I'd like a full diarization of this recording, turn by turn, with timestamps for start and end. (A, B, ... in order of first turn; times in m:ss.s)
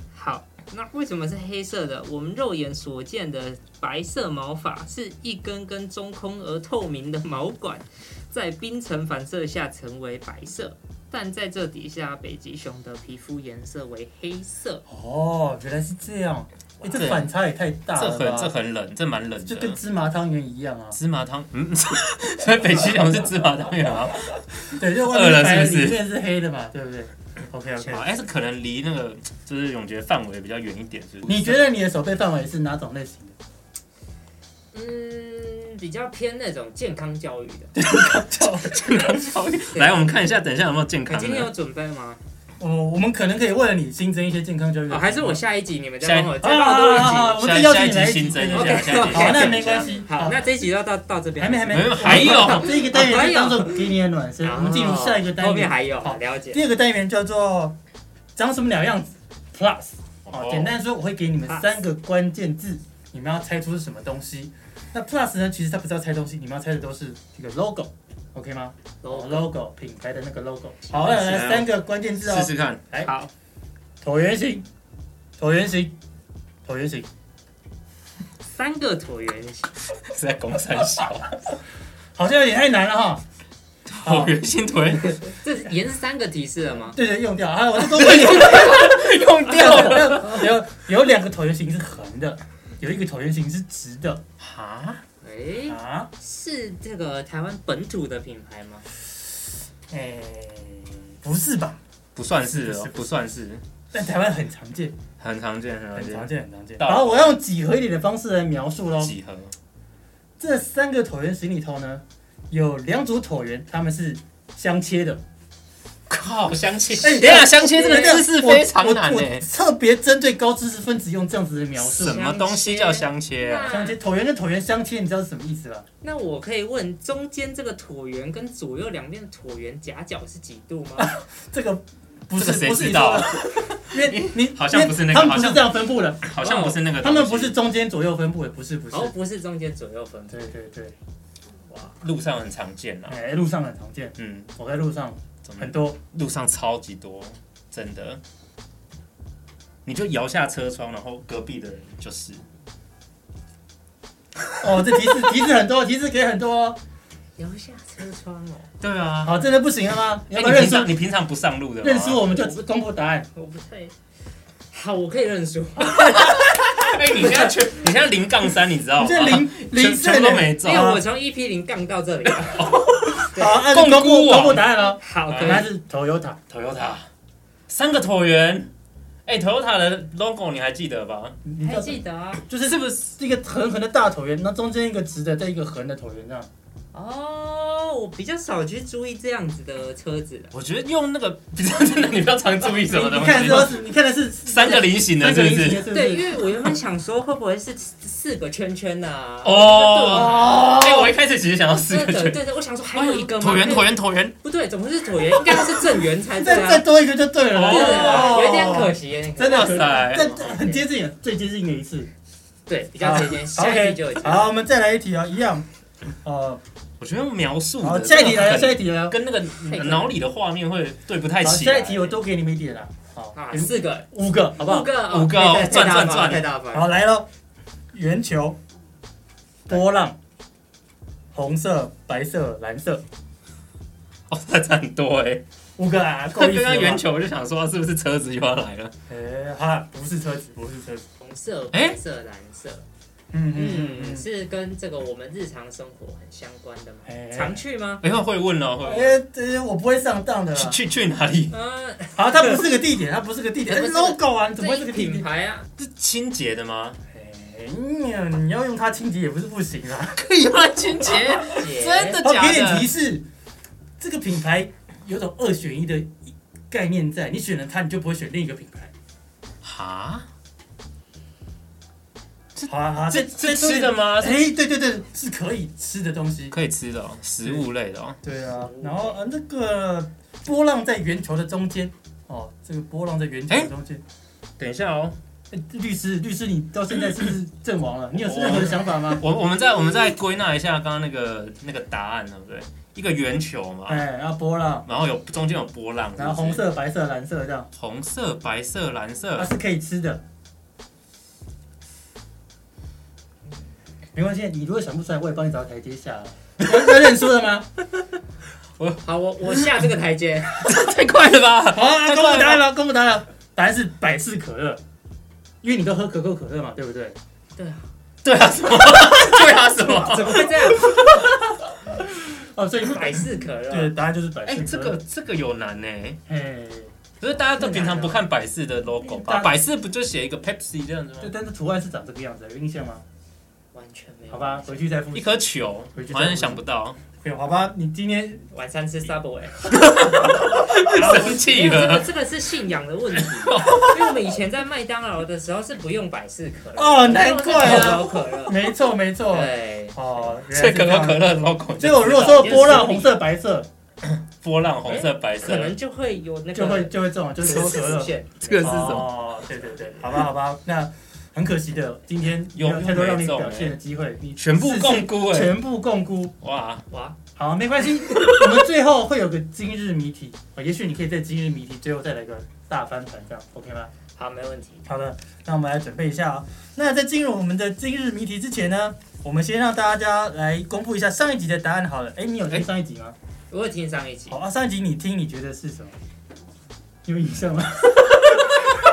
0:00.1-0:14.8 A
0:14.9-0:18.6 B
0:16.9-0:17.3 C
0:18.0-0:19.8 C
0:19.5-0:21.0 B
0:20.9-0:26.0 C
0:24.8-0:28.1 B
0:27.8-0:31.6 C
0:31.3-0:33.4 B
0:34.7-0:37.7 A
0:37.8-0:39.1 B
0:37.9-0:41.5 C
0:39.7-0:40.1 A
0:41.1-0:42.2 A
0:42.6-0:45.4 B
0:44.9-0:47.4 A
0:46.0-0:46.4 C
0:46.4-0:50.4 B
0:47.3-0:50.0 C
0:48.5-0:53.9 A
0:51.4-0:57.8 B
0:51.7-0:52.8 C
0:54.4-0:56.6 A
0:58.4-1:13.1 B
1:00.3-1:00.8 C
1:01.5-1:01.8 A
1:09.0-1:09.5 A
1:10.9-1:11.2 A
1:10.9-1:12.8 C
1:13.0-1:13.3 A
1:14.0-1:14.7 B
1:15.4-1:15.9 B
1:16.7-1:17.1 B
1:18.5-1:19.7 A
1:20.1-1:21.4 C
1:22.2-1:23.2 B
1:23.9-1:25.2 C
1:24.0-1:24.4 B
1:25.0-1:27.0 A
1:26.9-1:34.2 B
1:27.8-1:30.5 C
1:34.4-1:35.0 C
1:35.2-1:38.8 A
1:35.7-1:36.1 B
1:39.9-1:41.8 B
1:42.2-1:43.6 C
1:42.5-1:43.1 B
1:43.9-1:45.0 B
1:45.2-1:47.4 C
1:45.9-1:49.1 B
1:49.0-1:49.5 C
1:50.4-1:55.2 B
1:56.1-1:59.5 C
1:57.0-2:02.2 B
2:01.8-2:03.7 C
2:02.0-2:04.0 A
2:03.7-2:05.9 B
2:06.0-2:11.1 A
2:11.0-2:19.1 B
2:12.4-2:17.6 C
2:18.9-2:20.5 A
2:20.3-2:20.9 B
2:22.0-2:23.2 C
2:23.1-2:26.0 B
2:24.2-2:24.5 C
2:25.4-2:28.2 C
2:29.9-2:32.4 C
2:34.6-2:36.8 B
2:37.4-2:38.7 A
2:38.8-2:39.4 C
2:39.2-2:41.0 B
2:40.3-2:42.5 C
2:41.8-2:43.3 B
2:43.4-2:43.9 A
2:44.7-2:47.6 A
2:46.2-2:51.0 C
2:49.0-2:51.0 B
2:50.6-2:53.7 A
2:52.4-2:54.6 C
2:53.4-2:56.5 B
2:54.8-2:55.7 A
2:55.3-2:55.7 C
2:56.5-2:57.1 C
2:57.7-2:58.7 C
2:59.3-3:01.4 C
3:01.4-3:06.5 B
3:01.6-3:02.4 A
3:02.6-3:03.1 C
3:06.9-3:10.5 A
3:10.5-3:13.8 C
3:12.9-3:16.4 B
3:14.5-3:15.9 C
3:15.9-3:21.1 A
3:19.4-3:22.4 C
3:20.2-3:20.8 B
3:21.9-3:26.9 A
3:22.9-3:24.4 C
3:25.5-3:25.8 C
3:26.4-3:32.1 B
3:27.5-3:30.4 C
3:27.6-3:30.9 A
3:32.7-3:34.5 A
3:33.0-3:35.7 B
3:36.2-3:36.6 B
3:37.0-3:42.2 C
3:37.8-3:39.2 B
3:39.6-3:40.2 A
3:41.4-3:44.9 B
3:43.3-3:47.0 A
3:45.1-3:46.4 C
3:46.7-3:47.3 B
3:47.9-3:48.6 B
3:49.7-3:50.2 B
3:51.3-3:53.0 B
3:54.3-3:55.4 C
3:55.8-3:57.1 B
3:56.3-3:58.9 C
3:59.1-4:01.0 B
4:01.2-4:02.9 A
4:03.3-4:04.3 B
4:03.5-4:08.0 A
4:07.1-4:07.6 B
4:08.0-4:09.2 C
4:08.8-4:10.8 B
4:10.5-4:11.5 C
4:11.5-4:12.8 A
4:12.2-4:15.3 B
4:13.7-4:15.7 A
4:15.8-4:17.0 C
4:17.1-4:20.2 B
4:20.2-4:22.9 C
4:21.5-4:22.2 A
4:22.2-4:23.3 B
4:24.0-4:28.9 B
4:29.6-4:30.3 C
4:32.6-4:34.5 C
4:32.7-4:36.6 B
4:36.5-4:38.2 C
4:38.2-4:44.0 B
4:38.5-4:39.2 A
4:44.6-4:45.2 C
4:45.5-4:49.2 B
4:48.2-4:54.0 C
4:53.9-4:54.9 B
4:54.9-4:56.6 C
4:56.2-4:57.7 B
4:57.8-4:59.5 C
4:59.4-5:00.2 B
5:04.2-5:07.7 B
5:08.8-5:09.7 C
5:09.0-5:10.6 A
5:10.6-5:12.6 C
5:11.7-5:14.8 B
5:15.6-5:17.2 B
5:17.6-5:17.8 A
5:18.2-5:21.3 C
5:19.8-5:21.0 A
5:22.0-5:25.0 B
5:22.8-5:23.9 A
5:24.4-5:26.2 C
5:26.3-5:26.9 B
5:27.2-5:31.3 C
5:27.6-5:28.2 B
5:29.0-5:29.5 B
5:31.2-5:33.0 B
5:33.7-5:34.9 A
5:34.3-5:36.6 B
5:35.1-5:37.0 C
5:37.2-5:38.5 B
5:38.5-5:48.7 A
5:39.7-5:42.1 C
5:43.2-5:44.2 C
5:46.8-5:51.2 B
5:47.5-5:48.1 C
5:49.2-5:50.4 A
5:50.5-5:53.0 C
5:51.8-5:53.7 B
5:52.3-5:53.1 A
5:54.2-5:55.8 C
5:54.9-5:59.0 A
5:56.5-6:06.3 B
5:58.4-5:59.1 C
6:02.5-6:03.8 C
6:04.4-6:05.6 C
6:06.4-6:06.8 C
6:06.9-6:07.2 A
6:07.4-6:13.9 B
6:14.1-6:14.9 A
6:14.9-6:23.2 B
6:23.5-6:24.4 A
6:24.3-6:25.9 B
6:27.1-6:28.3 B